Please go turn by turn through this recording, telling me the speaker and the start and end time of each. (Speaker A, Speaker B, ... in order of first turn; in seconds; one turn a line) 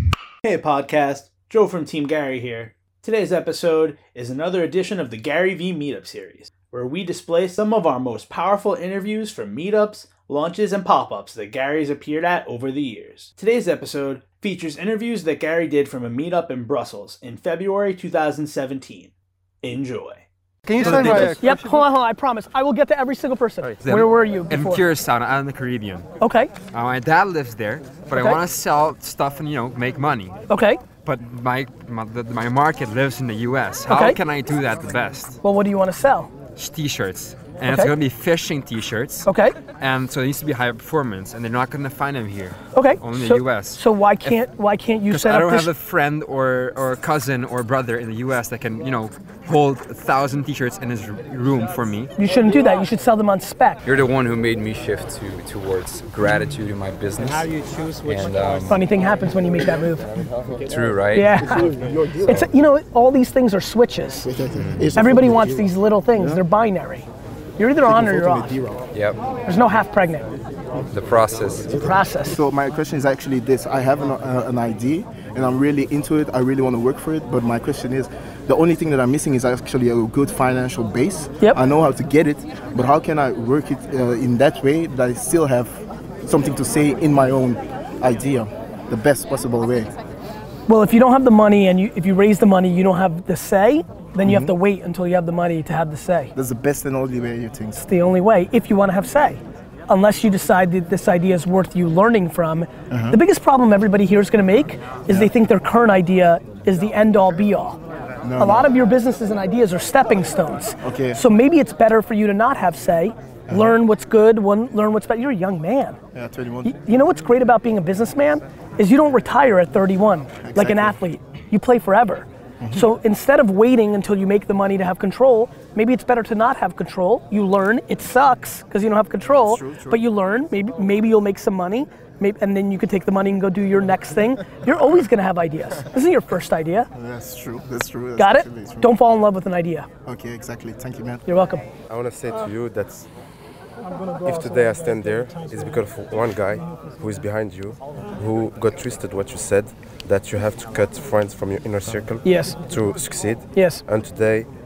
Speaker A: 0.5-19.1
Speaker A: 19.6-20.2
Speaker B: 20.8-24.9
Speaker A: 20.8-21.2
Speaker C: 21.1-21.4
Speaker C: 23.8-26.1
Speaker B: 26.2-26.5
Speaker C: 26.7-30.4
Speaker B: 28.1-28.4
Speaker B: 30.5-30.8
Speaker C: 31.0-35.4
Speaker B: 33.9-34.2
Speaker B: 35.4-36.3
Speaker C: 36.6-44.4
Speaker B: 37.6-37.9
Speaker B: 39.2-39.5
Speaker B: 42.7-45.7
Speaker C: 45.1-52.1
Speaker B: 52.2-53.8
Speaker D: 53.9-57.3
Speaker C: 53.9-54.2
Speaker C: 58.1-58.7
Speaker D: 58.3-58.7
Speaker B: 58.7-60.1
Speaker D: 61.0-61.2
Speaker B: 61.1-64.3
Speaker E: 64.2-65.7
Speaker B: 64.9-67.1
Speaker B: 67.6-68.6
Speaker E: 67.9-68.8
Speaker B: 69.5-70.3
Speaker C: 70.9-71.7
Speaker B: 71.7-72.4
Speaker E: 72.2-89.9
Speaker B: 90.7-96.3
Speaker E: 94.2-94.5
Speaker E: 96.3-97.8
Speaker B: 97.8-107.8
Speaker E: 102.9-103.2
Speaker E: 108.2-108.7
Speaker B: 108.4-116.0
Speaker E: 110.8-111.2
Speaker E: 113.5-113.8
Speaker E: 116.1-116.7
Speaker B: 116.6-136.9
Speaker E: 120.4-121.0
Speaker E: 129.4-130.0
Speaker E: 136.9-138.9
Speaker B: 138.2-139.9
Speaker E: 140.1-141.2
Speaker B: 141.2-141.7
Speaker F: 141.9-143.1
Speaker F: 144.1-154.5
Speaker B: 152.2-152.6
Speaker B: 153.5-153.8